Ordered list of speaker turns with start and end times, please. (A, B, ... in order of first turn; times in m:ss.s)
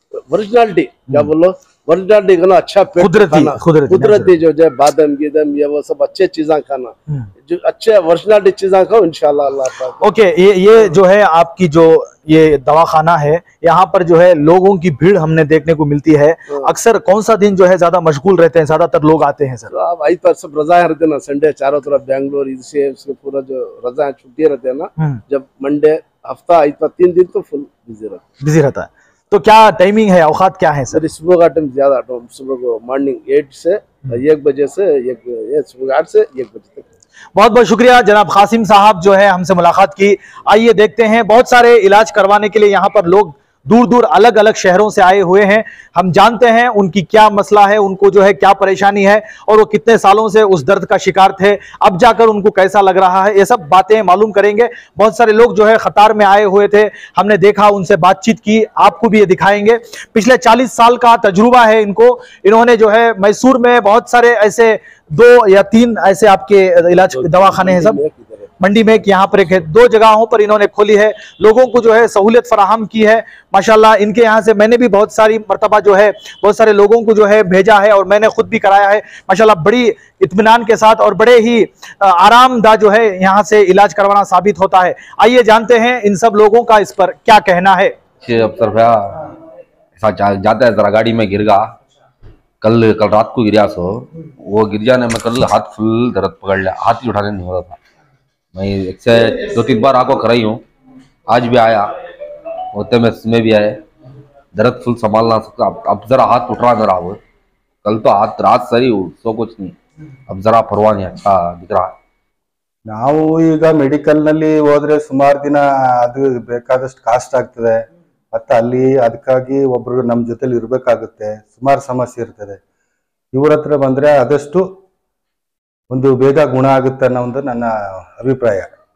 0:00.3-0:06.9 A
0:03.0-0:04.3 B
0:07.5-0:10.0 A
0:10.0-0:19.7 B
0:19.7-0:28.2 A
0:28.4-0:31.0 B
0:30.9-0:36.9 A
0:37.4-1:08.0 B
1:07.1-1:08.5 A
1:08.6-1:28.0 B
1:28.2-1:29.3 C
1:30.0-1:31.7 C
1:32.6-1:37.8 C
1:38.6-1:40.6 C
1:41.3-1:41.9 C
1:42.7-1:43.8 C
1:44.6-1:47.2 C
1:47.8-1:49.8 C
1:50.3-1:51.9 C
1:52.9-2:02.6 D
2:03.3-2:04.8 D
2:05.9-2:08.7 D